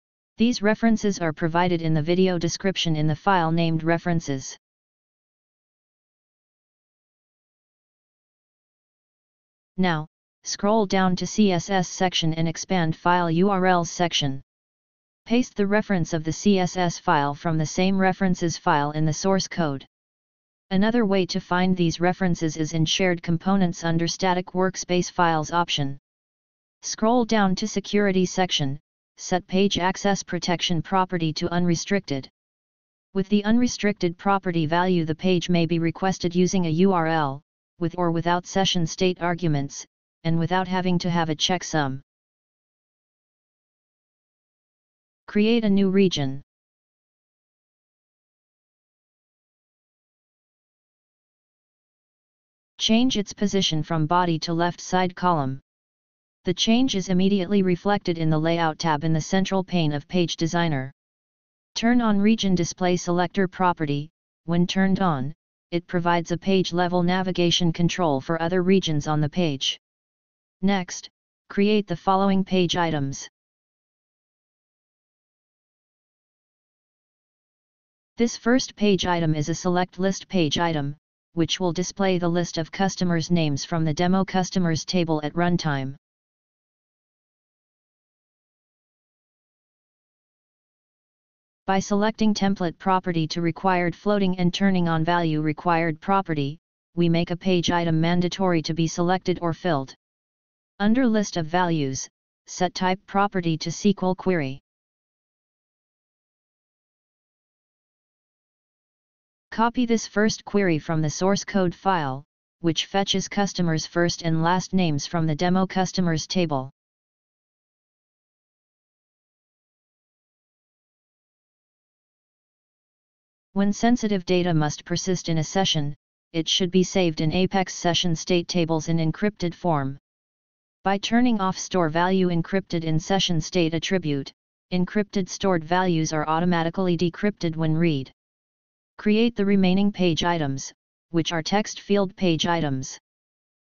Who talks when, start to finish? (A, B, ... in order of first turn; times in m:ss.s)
0:00.4-0:04.6 A
0:09.8-0:14.4 A
0:15.2-0:19.9 A
0:20.7-0:26.0 A
0:26.8-0:32.3 A
0:33.1-0:42.0 A
0:45.3-0:46.4 A
0:52.8-0:55.6 A
0:56.4-1:00.9 A
1:01.7-1:09.8 A
1:10.6-1:13.3 A
1:18.2-1:26.0 A
1:31.6-1:40.0 A
1:40.8-1:44.6 A
1:49.5-1:56.7 A
2:03.5-2:10.0 A
2:10.8-2:18.1 A
2:19.0-2:23.0 A